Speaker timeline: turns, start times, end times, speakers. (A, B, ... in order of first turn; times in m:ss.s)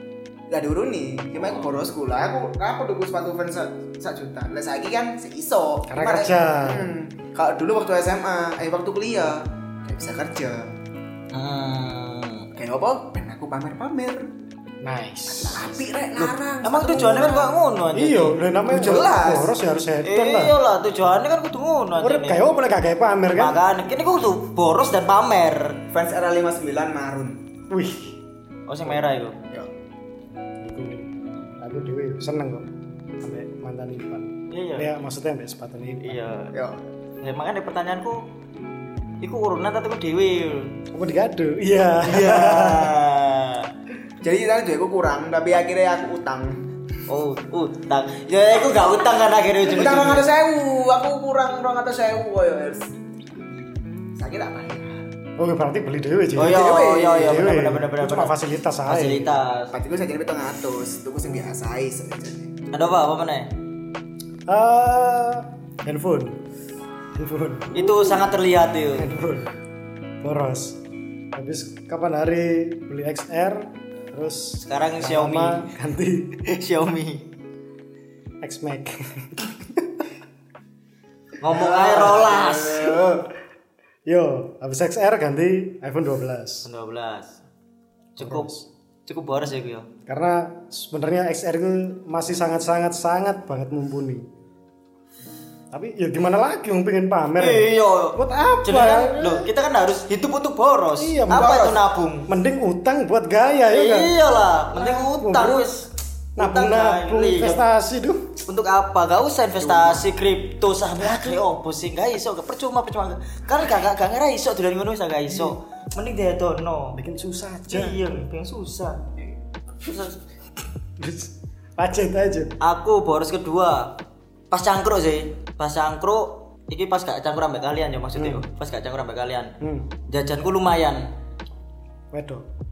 0:00.5-0:10.7 A
0:05.9-0:06.9 B
0:11.3-0:12.5 C
0:12.6-0:14.3 A
0:14.8-0:15.7 B
0:15.3-0:17.6 A
0:16.2-0:18.4 C
0:17.9-0:20.6 B
0:18.7-0:19.6 A
0:20.0-0:22.5 C
0:22.0-0:23.6 B
0:23.4-0:25.8 C
0:25.9-0:27.4 A
0:27.7-0:28.2 B
0:28.7-0:29.4 C
0:30.6-0:31.1 B
0:31.6-0:32.7 B
0:33.2-0:36.2 B
0:34.5-0:34.9 C
0:36.0-0:36.5 C
0:36.5-0:36.8 A
0:37.2-0:38.2 C
0:39.2-0:40.7 C
0:40.9-0:43.0 B
0:42.1-0:43.7 C
0:44.2-0:46.7 A
0:47.1-0:50.3 C
0:49.7-0:52.9 A
0:54.2-0:54.9 A
0:55.4-0:56.6 B
0:56.4-0:59.7 C
0:56.4-0:57.5 A
0:57.2-0:59.4 B
0:59.7-1:02.5 A
1:02.7-1:03.5 C
1:04.5-1:06.4 B
1:07.2-1:08.3 B
1:07.7-1:09.1 C
1:09.0-1:09.5 B
1:10.2-1:10.8 B
1:11.4-1:16.3 B
1:14.7-1:15.7 C
1:16.5-1:17.3 C
1:18.4-1:19.4 B
1:21.4-1:23.0 C
1:21.5-1:23.3 A
1:24.1-1:26.7 B
1:26.6-1:27.3 C
1:28.2-1:28.5 C
1:28.2-1:28.7 B
1:29.1-1:29.9 C
1:30.1-1:34.2 B
1:35.7-1:39.5 B
1:37.4-1:42.3 C
1:41.0-1:41.7 B
1:41.3-1:41.8 A
1:42.3-1:44.2 B
1:43.7-1:47.6 C
1:44.8-1:45.7 B
1:46.4-1:48.3 B
1:48.5-1:57.0 C
1:49.6-1:50.1 A
1:51.0-1:51.4 B
1:57.0-1:58.0 B
1:57.7-1:59.0 C
1:59.8-2:00.2 C
2:01.0-2:02.6 B
2:02.6-2:04.0 C
2:04.5-2:09.5 C
2:08.2-2:08.4 B
2:09.6-2:09.9 B
2:10.1-2:11.0 C
2:12.1-2:12.4 B